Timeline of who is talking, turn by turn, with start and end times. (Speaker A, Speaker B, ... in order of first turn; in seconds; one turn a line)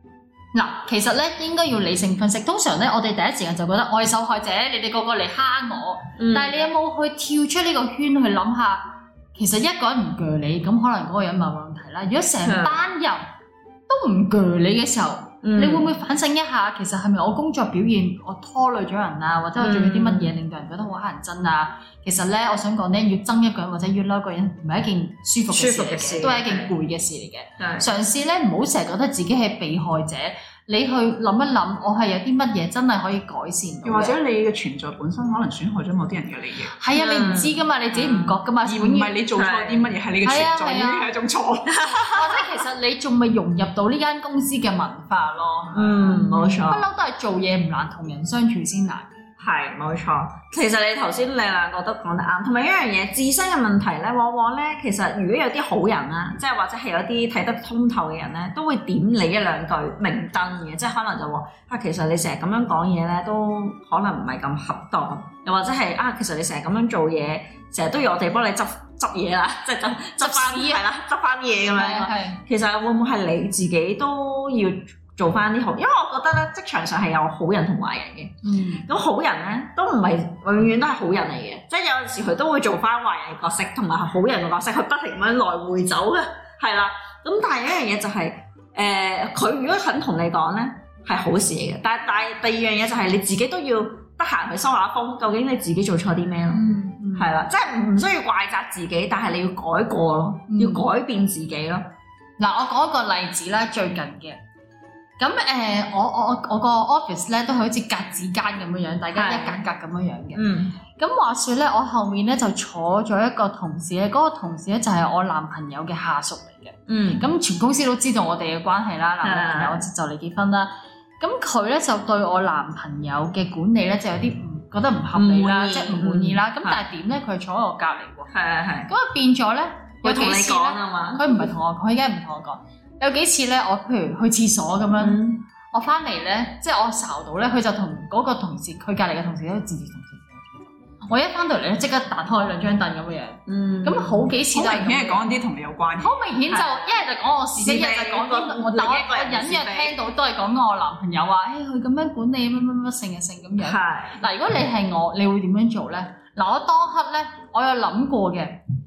Speaker A: 0.5-13.2
Speaker B: 6.2-6.5
Speaker B: 12.4-12.8
Speaker A: 13.9-34.2
Speaker B: 15.4-15.9
Speaker B: 19.6-20.3
Speaker B: 25.5-26.7
Speaker B: 27.6-27.9
Speaker C: 33.8-36.7
Speaker A: 36.8-39.1
Speaker B: 36.9-38.4
Speaker C: 38.6-41.7
Speaker B: 39.4-39.9
Speaker A: 40.2-41.1
Speaker B: 41.7-42.6
Speaker A: 41.8-49.1
Speaker B: 45.7-46.9
Speaker B: 49.4-96.6
Speaker A: 70.2-70.8
Speaker A: 71.7-72.4
Speaker A: 78.4-78.8
Speaker A: 96.5-97.3
Speaker B: 97.1-101.8
Speaker A: 100.5-100.8
Speaker A: 102.4-104.4
Speaker A: 105.2-110.4
Speaker B: 109.1-109.6
Speaker B: 110.3-110.7
Speaker A: 111.0-128.3
Speaker B: 116.9-117.2
Speaker B: 119.2-119.8
Speaker B: 125.1-126.8
Speaker B: 128.3-128.9
Speaker A: 128.9-145.2
Speaker B: 130.0-131.5
Speaker B: 135.0-135.4
Speaker B: 143.5-144.3
Speaker C: 144.5-146.2
Speaker A: 146.0-158.6
Speaker B: 146.5-147.0
Speaker B: 147.6-150.0
Speaker B: 153.6-154.2